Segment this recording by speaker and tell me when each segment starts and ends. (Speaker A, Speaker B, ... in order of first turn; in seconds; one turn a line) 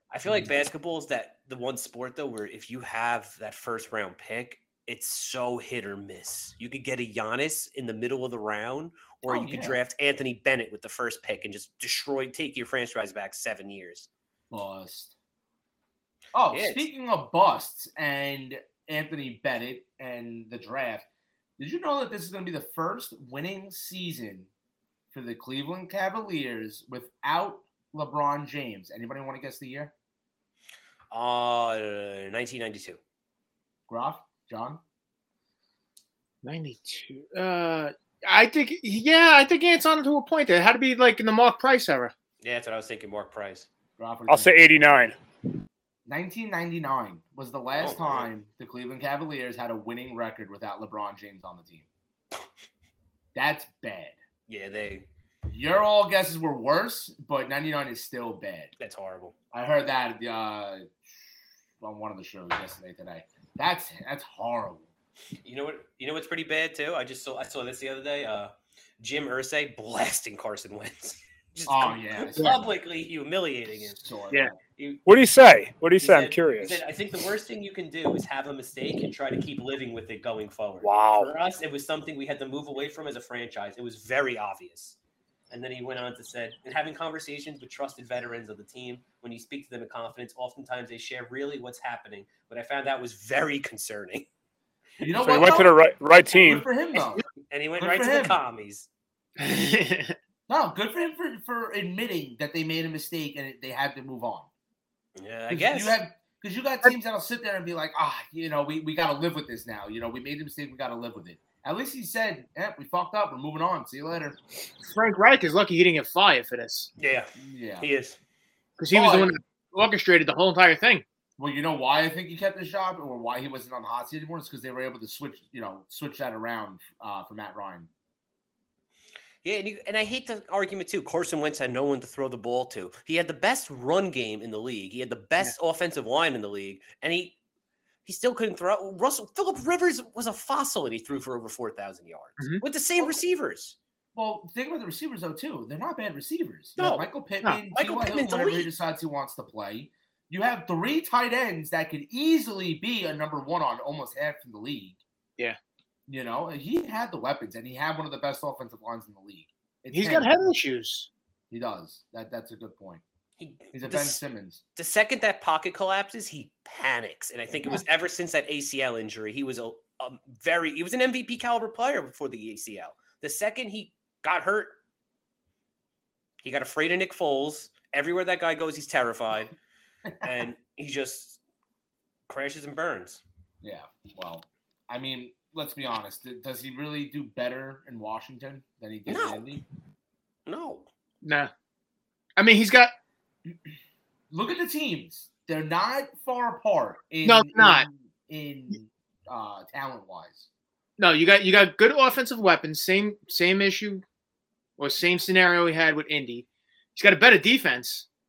Speaker A: 0.1-14.1
Speaker B: 9.2-9.8
Speaker B: 14.5-15.1
Speaker B: 16.3-21.1
Speaker A: 16.5-16.9
Speaker B: 21.6-24.5
Speaker B: 25.1-29.9
Speaker A: 31.1-33.0
Speaker B: 33.9-34.8
Speaker C: 36.4-42.1
Speaker A: 42.4-43.7
Speaker B: 44.0-44.6
Speaker D: 44.3-45.1
Speaker B: 46.0-51.9
Speaker A: 47.8-48.3
Speaker B: 53.3-54.2
Speaker A: 54.5-55.0
Speaker B: 55.5-58.7
Speaker A: 58.8-59.3
Speaker B: 59.5-61.0
Speaker B: 61.8-64.9
Speaker A: 65.4-74.0
Speaker B: 71.7-72.7
Speaker B: 73.9-74.6
Speaker A: 74.8-75.0
Speaker D: 75.0-76.8
Speaker A: 76.0-85.0
Speaker D: 80.8-81.3
Speaker A: 85.5-94.3
Speaker B: 95.0-95.7
Speaker D: 95.1-96.7
Speaker B: 96.3-97.2
Speaker A: 97.5-98.9
Speaker B: 97.8-98.4
Speaker C: 99.4-100.2
Speaker B: 100.5-104.5
Speaker A: 105.2-106.0
Speaker B: 105.5-114.4
Speaker C: 114.9-116.9
Speaker A: 117.0-118.2
Speaker B: 117.4-117.9
Speaker C: 118.8-121.0
Speaker B: 118.9-119.3
Speaker B: 121.4-127.9
Speaker A: 129.4-137.4
Speaker A: 138.0-143.8
Speaker B: 144.1-155.0
Speaker A: 146.8-147.1
Speaker A: 147.7-148.7
Speaker B: 156.1-160.3
Speaker C: 159.9-161.1
Speaker B: 161.5-163.0
Speaker A: 163.4-164.2
Speaker B: 163.7-164.6
Speaker A: 164.8-174.8
Speaker A: 176.4-179.5
Speaker A: 180.2-181.4
Speaker A: 182.3-183.2
Speaker B: 183.6-189.6
Speaker A: 189.1-189.6
Speaker A: 190.5-190.9
Speaker C: 191.2-191.5
Speaker C: 192.4-192.9
Speaker B: 194.3-200.5
Speaker C: 197.2-197.8
Speaker C: 201.0-204.0
Speaker C: 204.8-208.1